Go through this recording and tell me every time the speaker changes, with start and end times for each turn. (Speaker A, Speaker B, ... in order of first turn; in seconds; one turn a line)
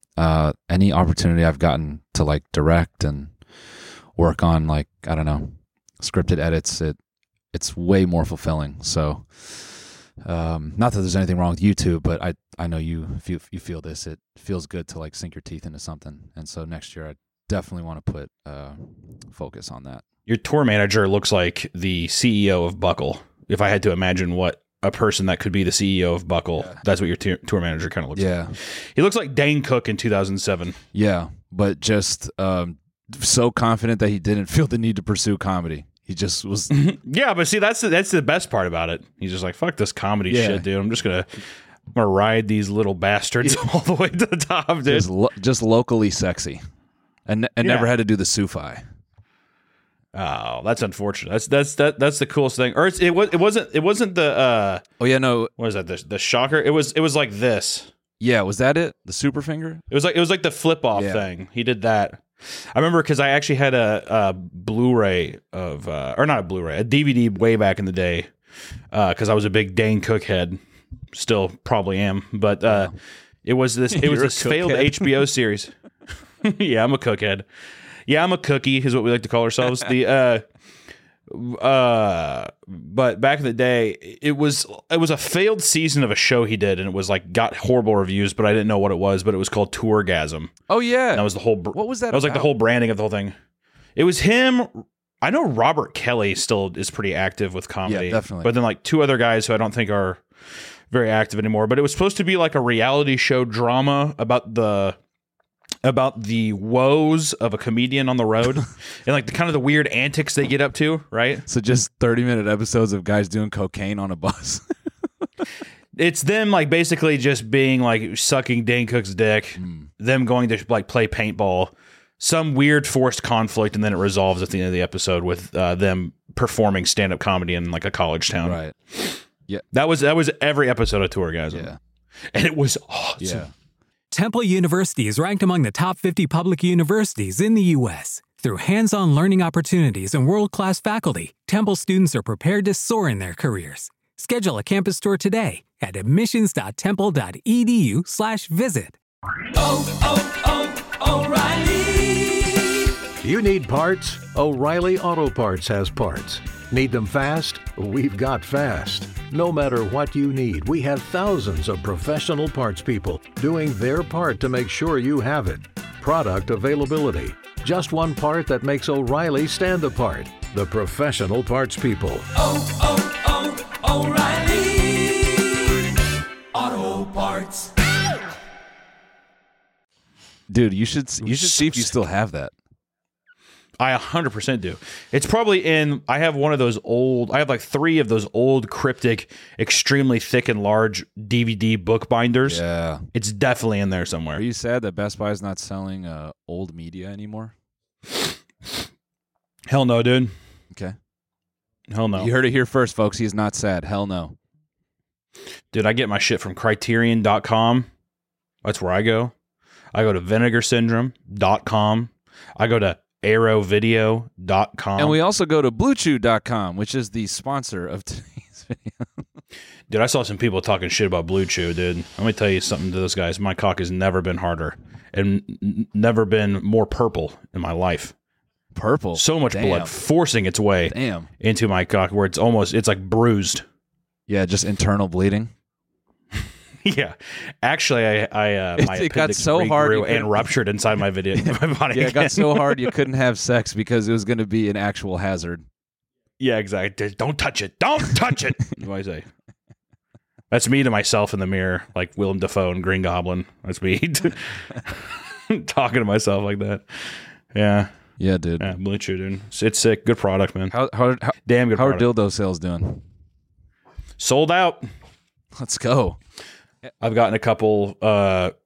Speaker A: 0.2-3.3
Speaker A: 4.2-7.0
Speaker A: 7.5-20.0
Speaker B: 20.3-30.8
Speaker A: 28.1-28.6
Speaker A: 30.9-36.8
Speaker B: 36.7-41.3
Speaker A: 40.3-40.7
Speaker B: 42.0-45.1
Speaker A: 44.9-46.6
Speaker A: 47.3-48.8
Speaker B: 47.6-47.9
Speaker B: 50.1-54.8
Speaker A: 55.0-55.5
Speaker B: 55.6-57.9
Speaker A: 58.2-59.8
Speaker B: 59.9-62.2
Speaker A: 60.9-61.3
Speaker B: 62.7-68.3
Speaker B: 68.9-70.6
Speaker B: 71.1-72.9
Speaker A: 72.7-72.9
Speaker B: 73.5-75.7
Speaker A: 73.9-75.2
Speaker B: 76.4-77.5
Speaker B: 78.1-80.4
Speaker B: 81.3-90.5
Speaker A: 90.7-92.5
Speaker B: 91.1-93.3
Speaker B: 94.0-100.2
Speaker A: 97.8-98.5
Speaker B: 100.9-105.0
Speaker B: 105.8-111.5
Speaker A: 111.5-114.7
Speaker B: 116.0-128.6
Speaker A: 119.6-119.9
Speaker A: 128.4-128.8
Speaker B: 129.7-131.7
Speaker A: 131.5-131.8
Speaker B: 132.3-133.5
Speaker A: 133.2-133.5
Speaker C: 134.1-149.0
Speaker C: 149.5-152.6
Speaker D: 153.2-172.3
Speaker C: 172.4-175.4
Speaker C: 176.6-177.7
Speaker A: 180.5-182.5
Speaker B: 181.2-181.9
Speaker B: 183.8-192.6
Speaker A: 192.4-193.1
Speaker B: 193.1-194.4
Speaker A: 194.3-197.5
Speaker B: 199.7-200.3
Speaker B: 201.9-202.3
Speaker A: 202.1-204.4
Speaker B: 205.7-207.9
Speaker B: 208.6-209.3
Speaker B: 209.9-215.2
Speaker A: 215.0-219.3
Speaker B: 219.9-228.1
Speaker A: 228.8-229.9
Speaker B: 229.2-233.6
Speaker A: 230.9-231.3
Speaker A: 234.3-235.5
Speaker B: 236.8-243.0
Speaker A: 238.8-240.5
Speaker A: 241.3-245.7
Speaker B: 246.4-249.3
Speaker B: 250.5-257.9
Speaker A: 258.2-258.7
Speaker B: 258.6-260.8
Speaker A: 260.7-263.0
Speaker B: 261.5-262.1
Speaker B: 264.2-264.9
Speaker A: 265.6-266.2
Speaker B: 267.0-268.5